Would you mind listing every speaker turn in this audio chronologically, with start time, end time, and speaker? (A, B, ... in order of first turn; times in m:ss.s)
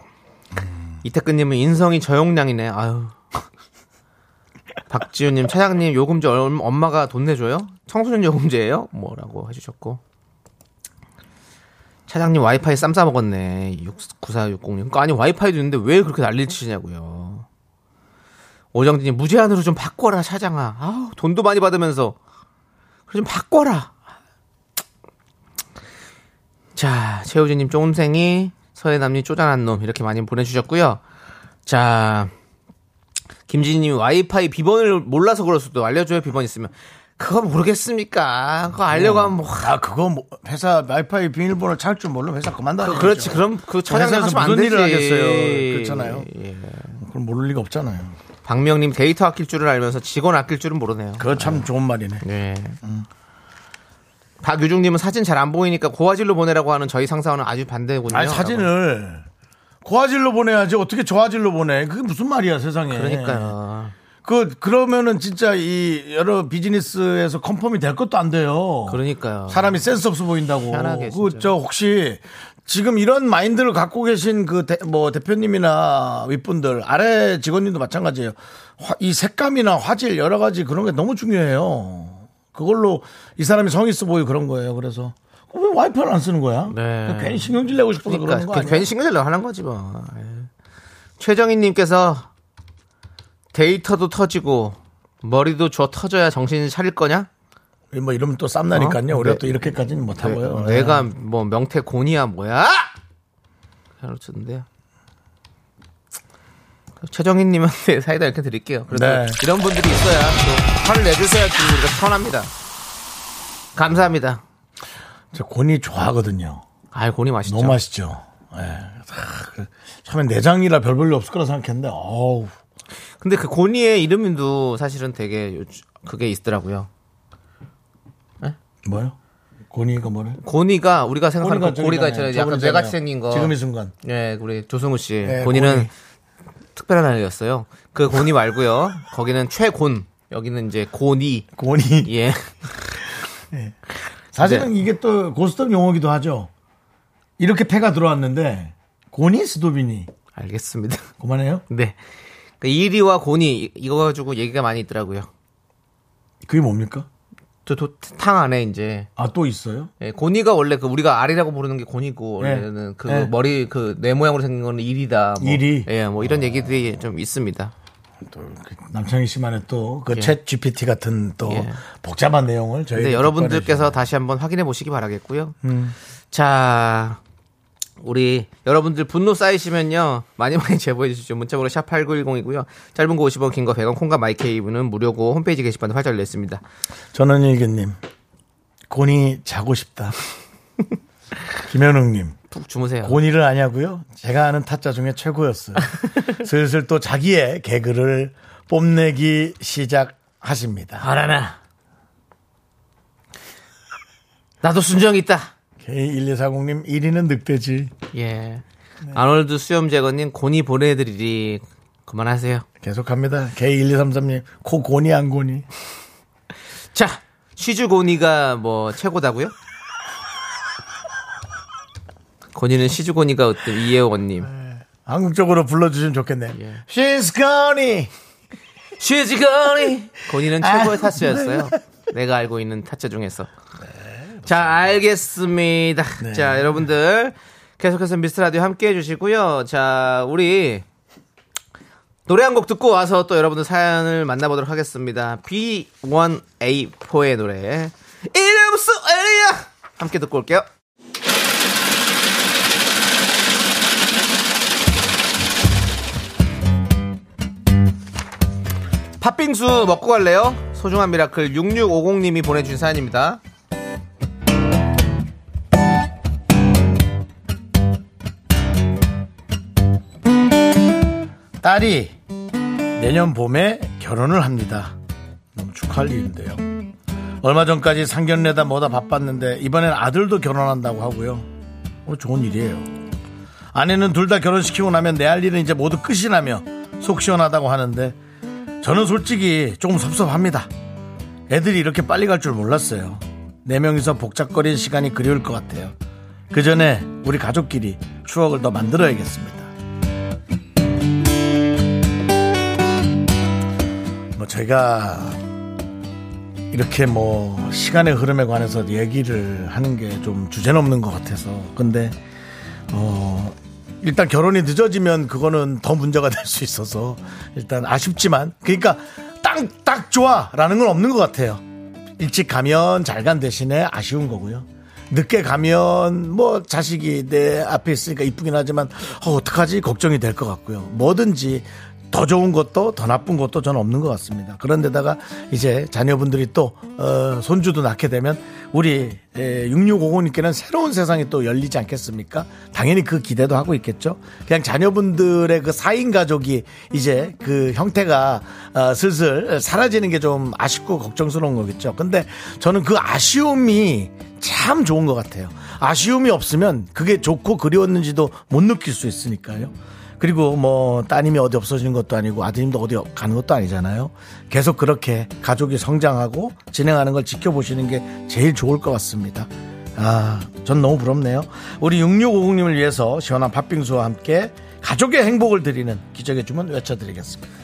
0:01.0-0:03.2 A
0:04.9-0:10.0 A
0:12.1-0:17.4 A
0:18.7-0:22.2 A
0:23.1-0:23.9 A
0:26.8-0:31.0 A
0:31.6-0:32.3 A
0:33.5-0:39.7 A
0:38.9-0:46.3 B
0:42.8-0:47.0 A
0:47.0-0:48.2 B
0:48.4-0:51.6 A
0:51.2-0:52.2 B
0:52.2-0:52.8 A
0:54.4-0:58.7 A
0:58.1-0:59.2 B
0:59.8-1:03.5 B
1:02.9-1:03.9 A
1:04.2-1:28.9 B
1:08.9-1:09.9 A
1:10.6-1:11.5 A
1:26.7-1:30.5 A
1:31.2-1:32.3 A
1:33.5-1:37.3 A
1:37.9-1:41.1 B
1:38.7-1:42.9 A
1:44.0-1:44.6 A
1:47.0-1:52.5 A
1:48.9-1:49.4 B
1:53.7-1:54.4 A
1:55.3-1:56.6 B
1:56.9-1:57.8 A
1:57.4-2:02.5 B
2:03.2-2:06.9 A
2:08.8-2:09.2 B
2:09.7-2:10.4 B
2:10.4-2:15.9 A
2:11.4-2:13.9 B
2:15.2-2:15.9 B
2:16.7-2:21.5 A
2:21.6-2:22.1 B
2:22.0-2:22.5 A
2:24.3-2:26.5 B
2:24.4-2:24.7 A
2:27.4-2:30.1 B
2:30.3-2:31.0 A
2:31.2-2:31.6 B
2:31.7-2:32.0 A
2:32.6-2:35.3 A
2:36.4-2:37.1 B
2:37.6-2:39.1 A
2:39.2-2:39.9 B
2:40.0-2:47.7 A
2:42.4-2:43.3 B
2:45.4-2:46.7 B
2:48.3-2:54.0 B
2:50.1-2:50.4 A
2:51.4-2:51.8 A
2:52.9-2:55.6 A
2:55.6-2:55.9 B
2:56.3-2:57.2 A
2:58.0-3:06.6 A
3:07.1-3:08.0 B
3:08.9-3:10.2 B
3:11.6-3:12.4 B
3:12.5-3:13.2 A
3:13.0-3:21.1 B
3:21.0-3:21.6 A
3:24.6-3:25.5 A
3:25.8-3:27.9 B
3:28.1-3:32.6 A
3:32.8-3:35.6 B
3:36.9-3:39.5 A
3:42.5-3:44.5 A
3:44.5-3:48.1 B
3:46.5-3:46.8 A
3:49.0-3:53.5 A
3:50.6-3:51.8 B
3:54.0-3:54.7 B
3:54.4-4:00.8 A
3:56.2-3:56.8 B
4:02.3-4:10.6 A
4:19.2-4:23.4 A
4:31.6-4:32.1 B
4:32.9-4:34.9 B
4:35.5-4:36.6 B
4:37.4-4:41.5 B
4:42.0-4:42.9 B
4:43.7-4:48.2 B
4:48.8-4:50.7 B
4:51.5-4:55.9 B
4:56.5-4:59.7 B
5:04.3-5:05.4 B
5:06.7-5:12.2 B
5:12.9-5:21.6 B
5:22.2-6:17.4 B